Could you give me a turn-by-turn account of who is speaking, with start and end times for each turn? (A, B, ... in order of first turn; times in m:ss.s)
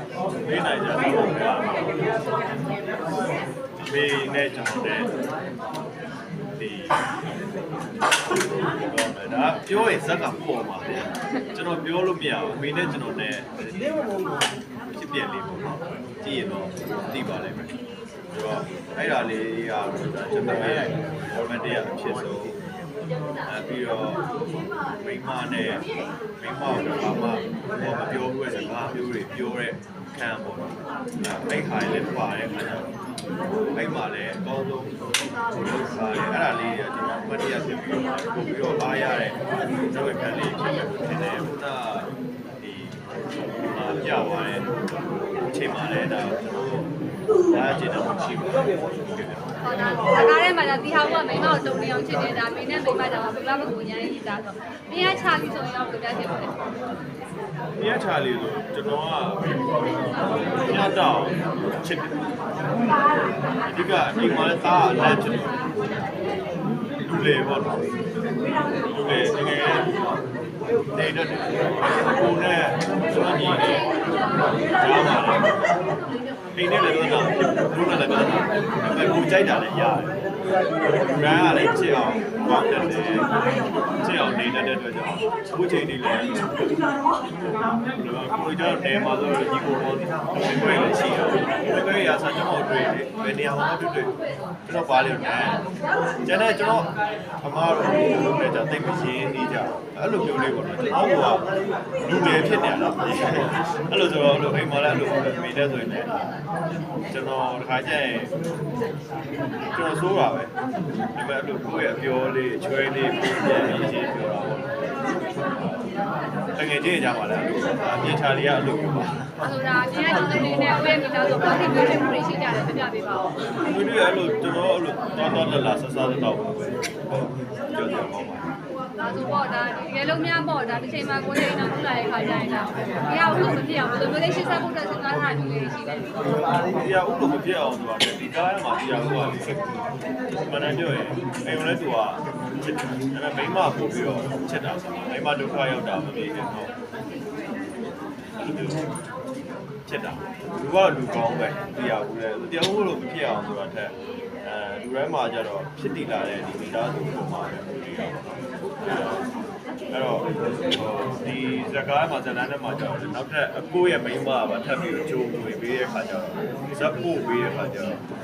0:00.4-0:01.9 A
0:03.8-0:05.1 A
0:06.6-0:07.0 A
0:08.6-0:14.3 A
0:14.9-0:17.8 A
0:18.3-0:22.6 A
0:23.5-0:24.2 A
0:25.0-0:25.8 A
0:26.4-0:32.9 A
0:33.8-0:35.0 A
0:35.8-0:43.0 A
0:43.7-0:44.7 A
0:45.4-0:46.9 A
0:47.5-0:49.5 A
0:49.6-0:56.6 B
0:57.8-0:59.5 A
1:00.6-1:02.3 A
1:03.7-1:05.6 A
1:07.0-1:07.8 A
1:09.0-1:09.9 A
1:10.9-1:13.9 A
1:14.8-1:15.7 A
1:16.6-1:20.2 A
1:21.1-1:23.3 A
1:24.0-1:26.5 A
1:27.4-1:34.1 A
1:34.7-1:35.6 A
1:36.2-1:41.5 A
1:42.0-1:46.4 A
1:47.1-1:48.3 A
1:49.7-1:50.5 A
1:51.2-1:55.8 A
1:56.6-1:59.4 A
1:59.4-2:03.3 B
2:03.6-2:08.5 A
2:09.0-2:16.1 B
2:16.6-2:19.6 A
2:20.5-2:26.7 A
2:28.4-2:28.8 A
2:29.9-2:38.3 A
2:38.8-2:39.3 A
2:39.9-2:48.0 A